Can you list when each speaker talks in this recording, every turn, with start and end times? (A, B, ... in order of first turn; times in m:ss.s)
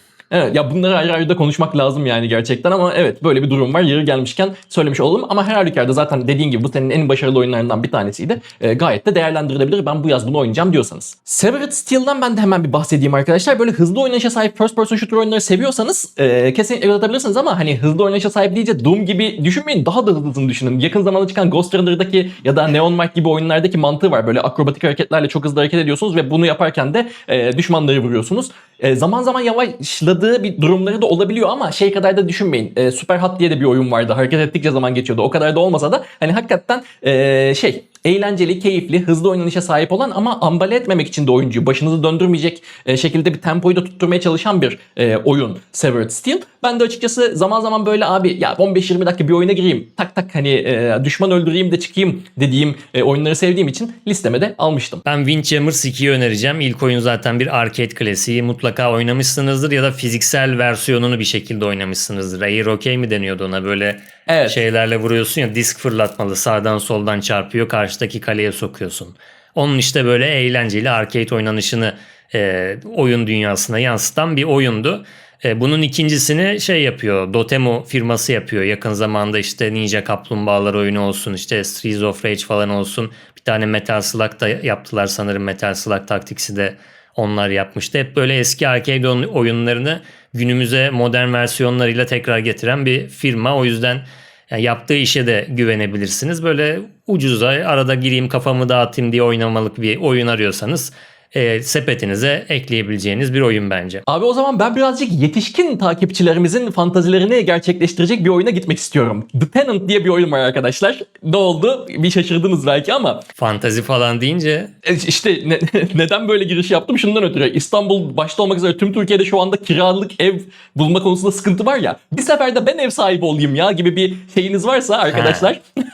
0:00.3-0:55.0 A
0:55.0-1:44.0 B
1:04.3-1:04.6 A
1:44.1-1:53.2 A
1:53.4-1:54.7 B
1:54.8-2:05.6 A
2:05.1-2:05.5 B